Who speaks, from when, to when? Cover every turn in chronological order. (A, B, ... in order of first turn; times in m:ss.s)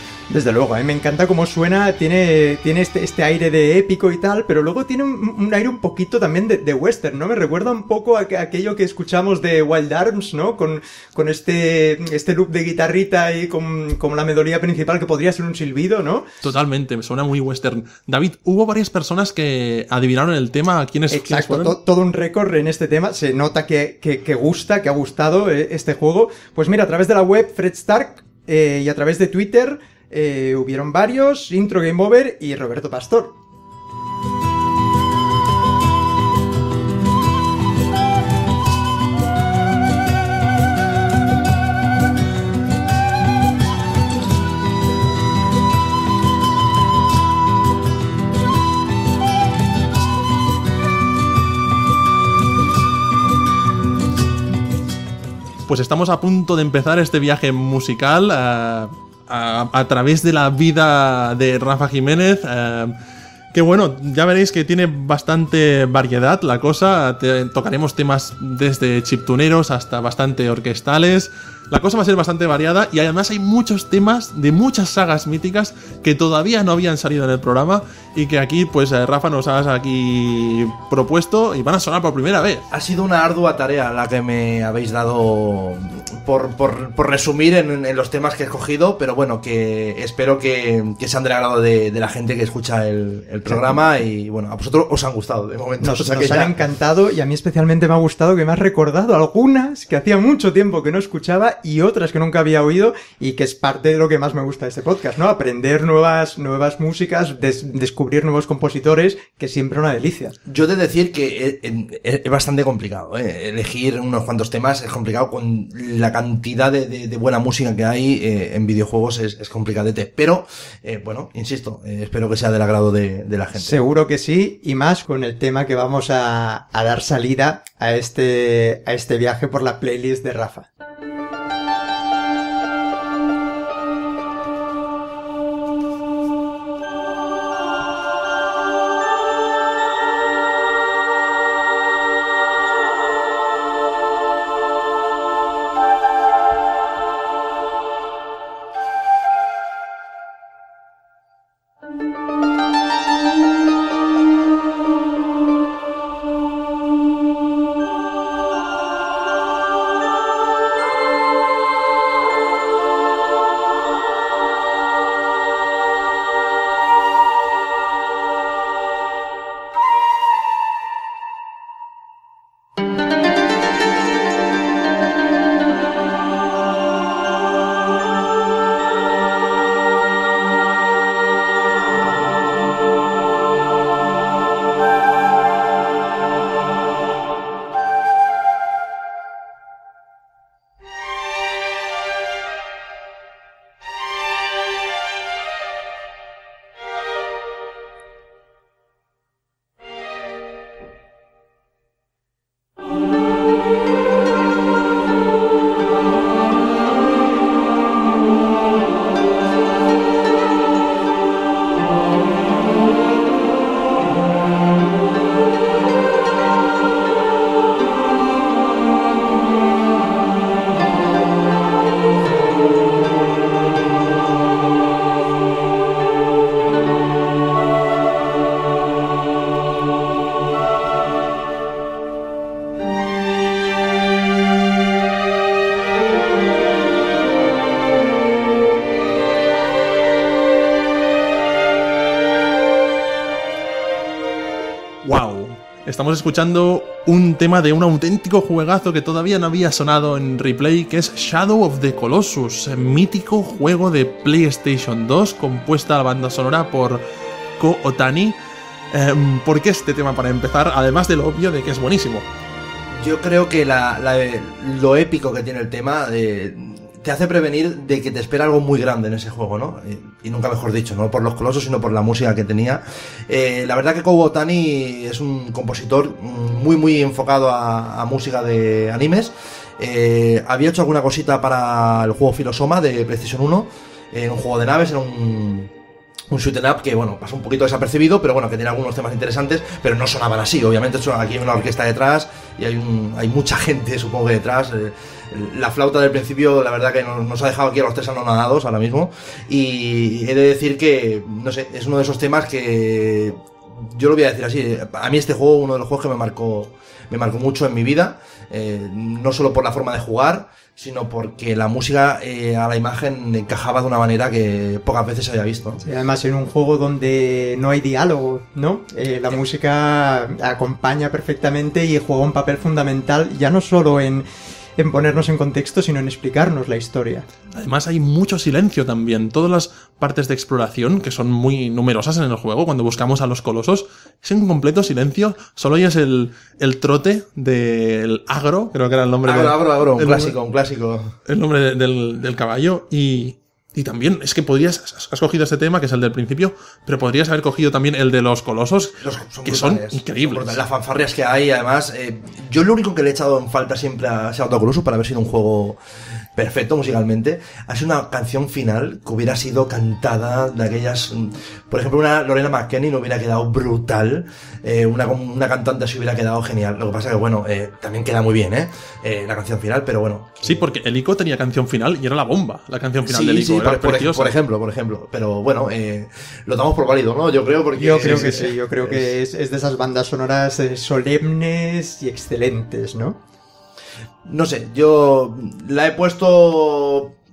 0:00.3-0:16.3 A
0:16.4-0:21.8 B
0:21.1-0:33.4 A
0:55.7-1:03.0 B
1:03.5-1:22.6 B
1:22.7-1:36.6 C
1:35.8-1:50.4 A
1:50.4-2:03.8 C
2:03.6-2:10.7 A
4:05.0-4:17.0 B
4:17.6-4:18.4 B
4:18.9-4:22.3 B
4:23.0-4:45.7 C
4:46.3-5:15.8 C
5:15.8-5:24.2 A
5:24.8-5:27.2 A
5:27.6-5:40.4 B
5:39.2-5:41.2 C
5:41.3-5:50.6 B
5:49.0-5:55.8 C
5:56.4-6:10.6 C
6:10.4-6:14.3 B
6:13.1-6:19.1 C
6:17.8-6:23.2 A
6:24.3-6:27.2 C